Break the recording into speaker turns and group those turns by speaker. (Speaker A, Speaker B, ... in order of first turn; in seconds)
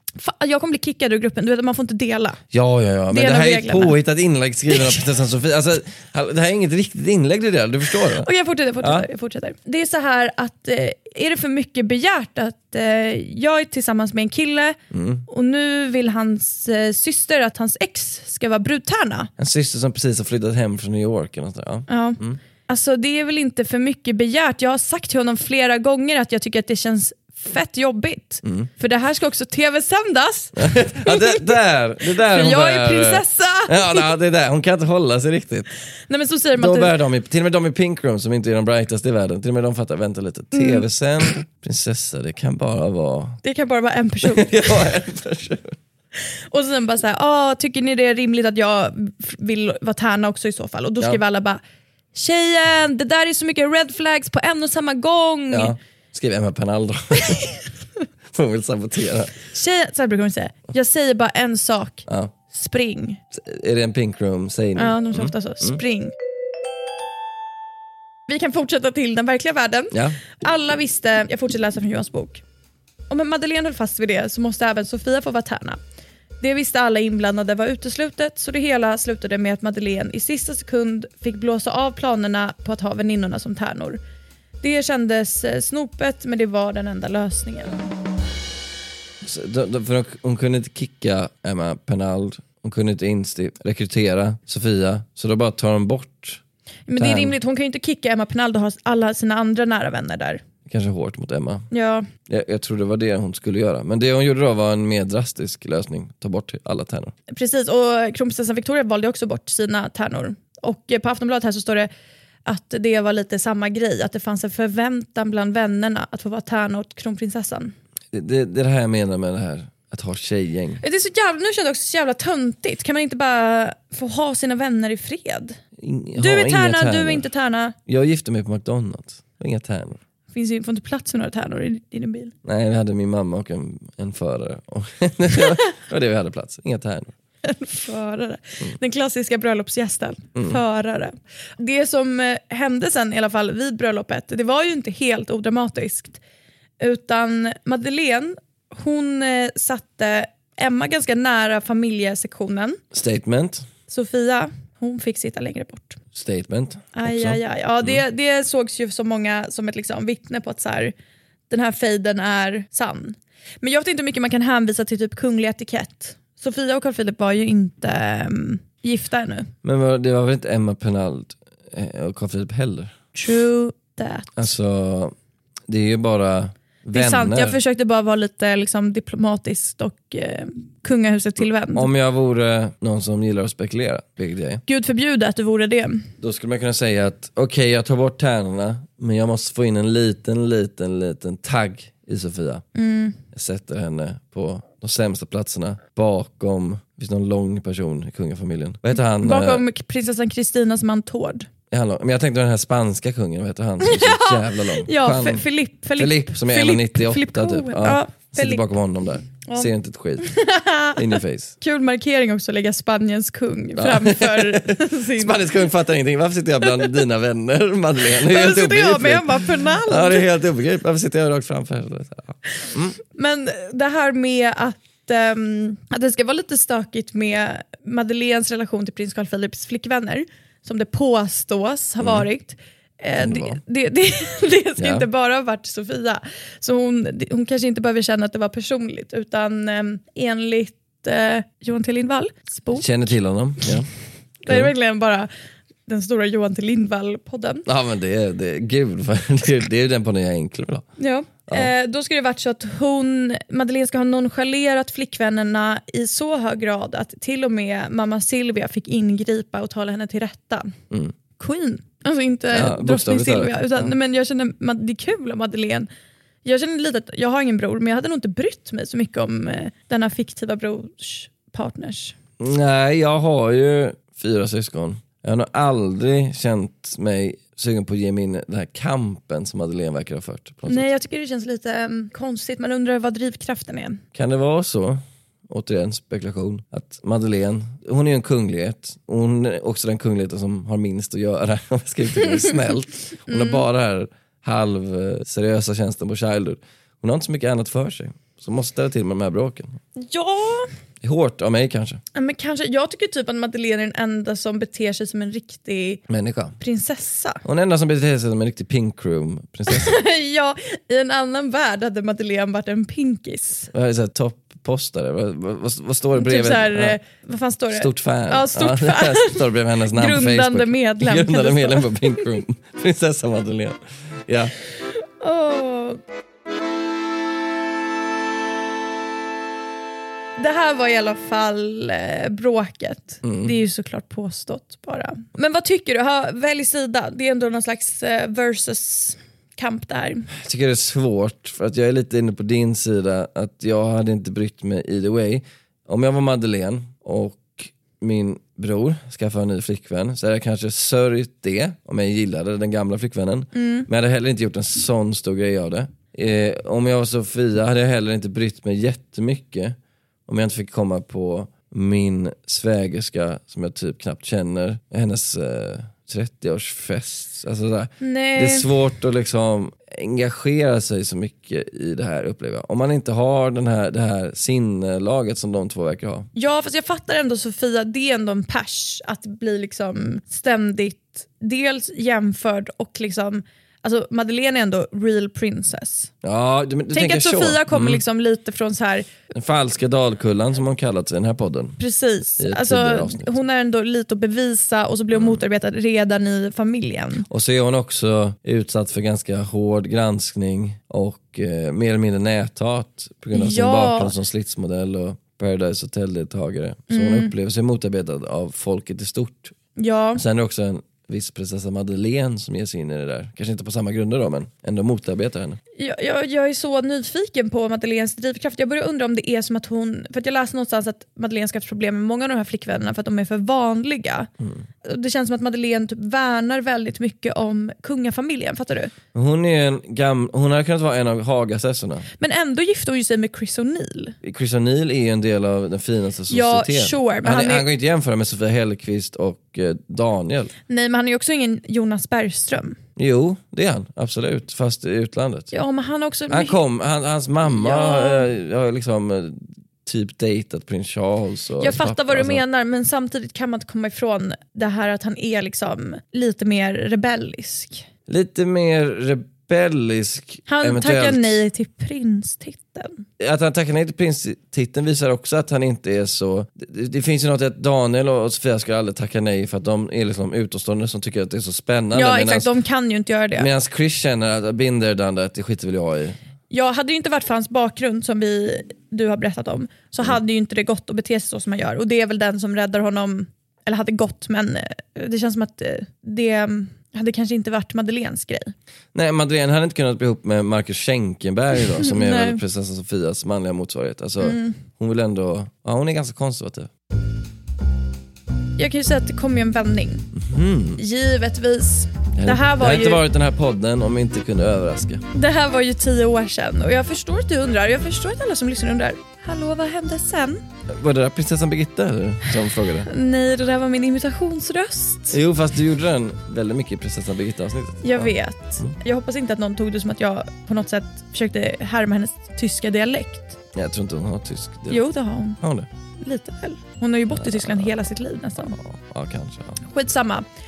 Speaker A: 0.1-2.4, 3.1-4.0, 4.7-5.0, 7.9-19.3, 21.9-31.5, 32.1-34.1, 36.1-36.9, 40.5-41.3, 43.4-44.9, 46.5-51.6, 52.1-55.8, 59.5-63.2, 64.8-66.1, 68.3-72.4, 73.1-75.8, 76.4-84.0, 84.6-87.9, 96.9-100.4, 101.7-102.1, 107.3-111.9, 112.5-117.7, 120.8-125.6, 126.2-127.8, 130.3-132.3, 137.4-146.2, 146.8-152.8, 153.9-156.0, 156.9-160.9, 161.5-169.5, 173.1-174.5, 176.9-181.9, 184.7-186.1, 192.7-193.2, 199.2-201.5, 203.8-208.7, 209.4-215.5, 216.6-216.9, 218.2-220.3, 223.1-242.9, 244.4-245.3, 245.9-247.7, 251.0-260.7, 261.4-265.9, 266.4-272.1, 280.7-284.0, 293.3-293.6, 299.9-300.7, 302.1-306.0, 306.6-307.4, 309.7-313.7, 316.1-322.2, 325.2-326.0, 330.4-340.3, 353.5-353.9, 368.0-368.7, 376.3-386.1, 386.9-389.1, 391.8-397.2, 403.3-404.1, 406.9-407.3, 409.8-410.2, 415.8-424.3, 424.8-428.9, 432.2-434.2, 436.3-437.6, 440.7-442.8, 445.5-446.6, 447.4-448.3, 451.6-457.9, 460.5-463.0, 471.9-473.5, 476.5-488.5, 491.7-492.4, 494.2-494.6, 498.6-500.1, 500.8-503.0, 505.1-510.4, 512.8-515.2, 517.8-523.4, 524.7-525.4, 526.0-528.5, 529.6-530.2
Speaker B: 2.5-8.3, 8.8-9.1, 14.9-15.2, 19.4-22.4, 28.4-28.7, 30.6-35.7, 36.5-43.4, 44.2-45.8, 55.5-57.5, 58.3-59.3, 62.0-62.3, 63.3-65.8, 69.9-70.2, 89.2-96.4, 97.0-97.4, 100.7-101.7, 102.3-107.1, 118.1-120.8, 125.8-127.2, 127.8-130.0, 132.4-137.1, 152.9-153.7, 156.1-158.0, 169.6-172.9, 174.3-175.1, 175.7-177.6, 181.7-184.6, 186.2-192.6, 193.3-199.6, 201.7-205.4, 205.9-210.3, 210.9-211.5, 213.8-223.0, 232.0-232.3, 233.2-233.6, 234.8-235.1, 242.7-243.9, 244.5-244.7, 247.7-250.8, 262.5-263.9, 272.4-280.9, 284.1-299.8, 301.0-302.0, 306.1-306.6, 307.4-309.9, 313.7-317.0, 317.7-324.5, 333.2-333.5, 340.3-376.3, 386.2-388.0, 389.3-391.8, 392.4-393.3, 397.3-409.5, 410.1-415.6, 424.4-424.6, 429.1-432.1, 434.2-440.5, 443.0-445.5, 446.3-452.4, 458.1-461.4, 463.2-472.5, 473.3-476.2, 488.9-496.7, 500.1-500.8, 502.1-505.0, 510.7-512.9, 515.1-518.7, 523.5-524.8, 525.4-525.7, 527.1-527.7, 528.4-529.6